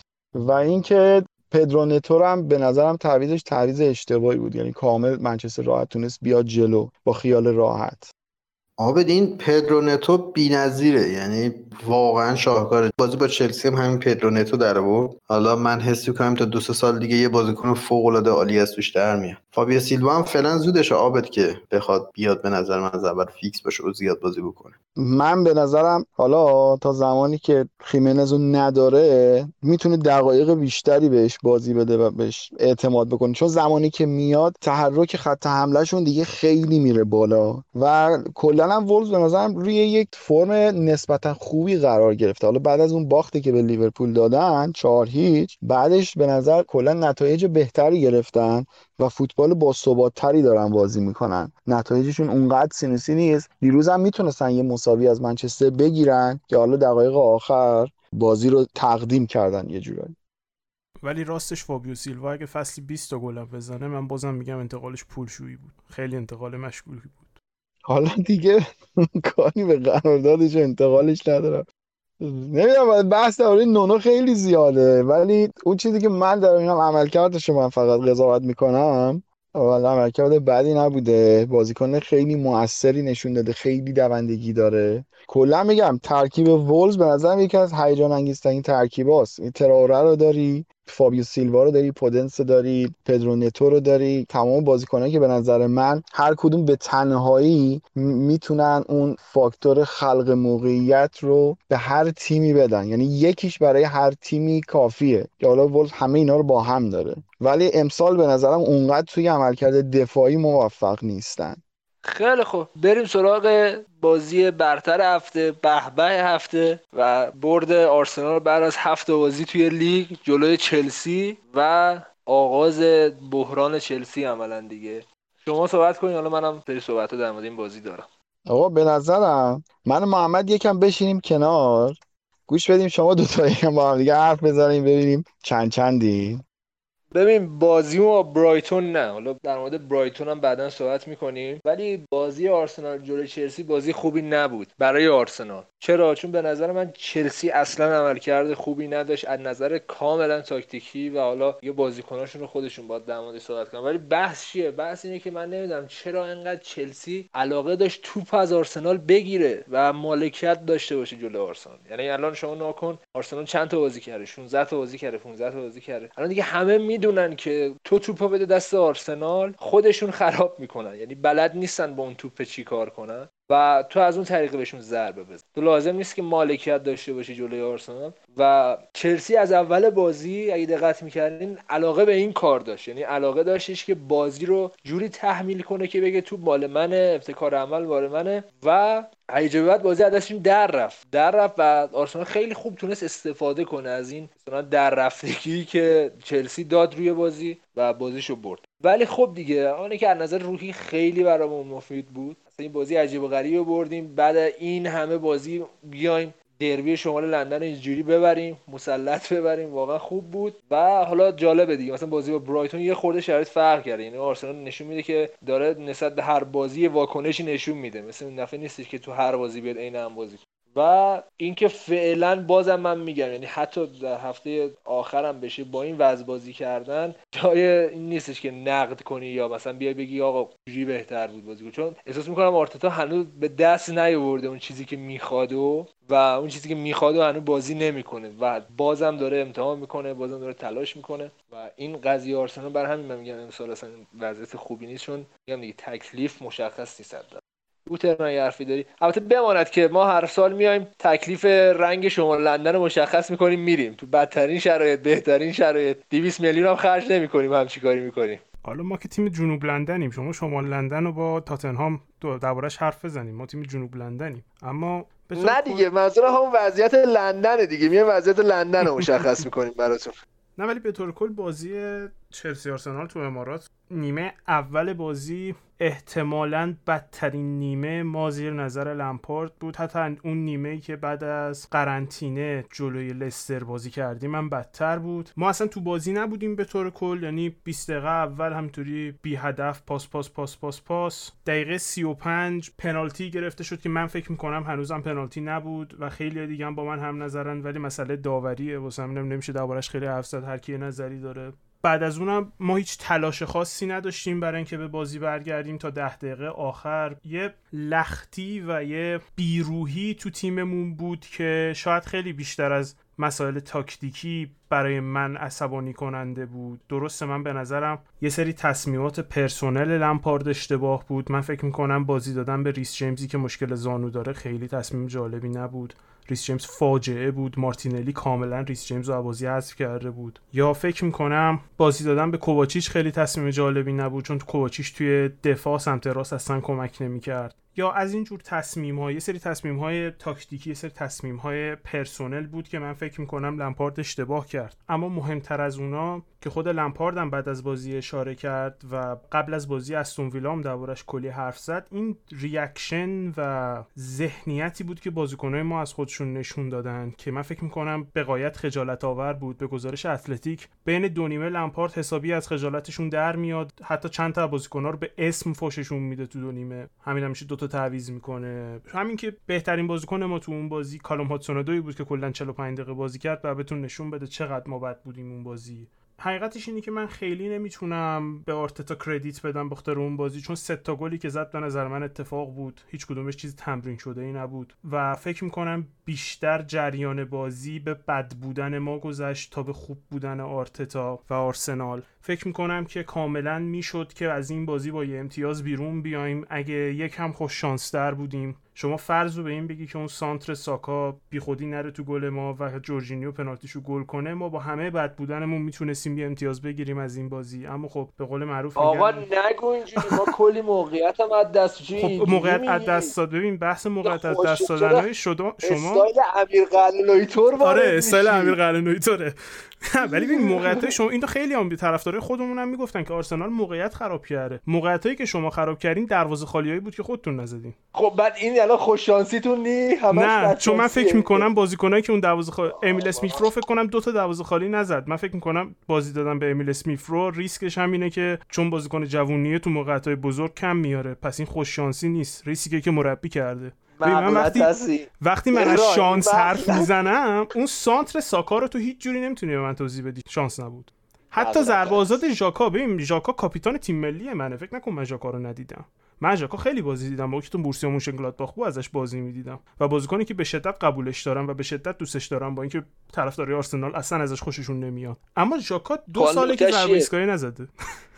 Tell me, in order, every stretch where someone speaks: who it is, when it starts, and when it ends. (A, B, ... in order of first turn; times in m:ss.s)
0:00.3-0:08.1 A
0:08.8-0:24.8 B
0:25.0-1:00.2 A
1:01.0-1:07.4 C
1:07.9-1:11.7 A
1:12.2-1:51.6 A
1:52.0-2:08.1 D
2:08.5-2:16.4 A
2:17.1-4:18.4 D
4:18.6-4:25.9 C
4:25.4-4:30.2 D
4:30.6-6:49.2 C
6:48.8-6:53.1 D
6:52.0-6:56.1 C
6:54.0-6:55.1 D
6:55.6-6:58.6 D
6:57.6-7:07.8 C
7:00.0-7:01.0 D
7:08.0-7:11.4 D
7:10.1-7:47.7 C
7:12.9-7:13.4 D
7:24.0-7:26.9 D
7:31.3-7:32.0 D
7:46.2-7:47.1 D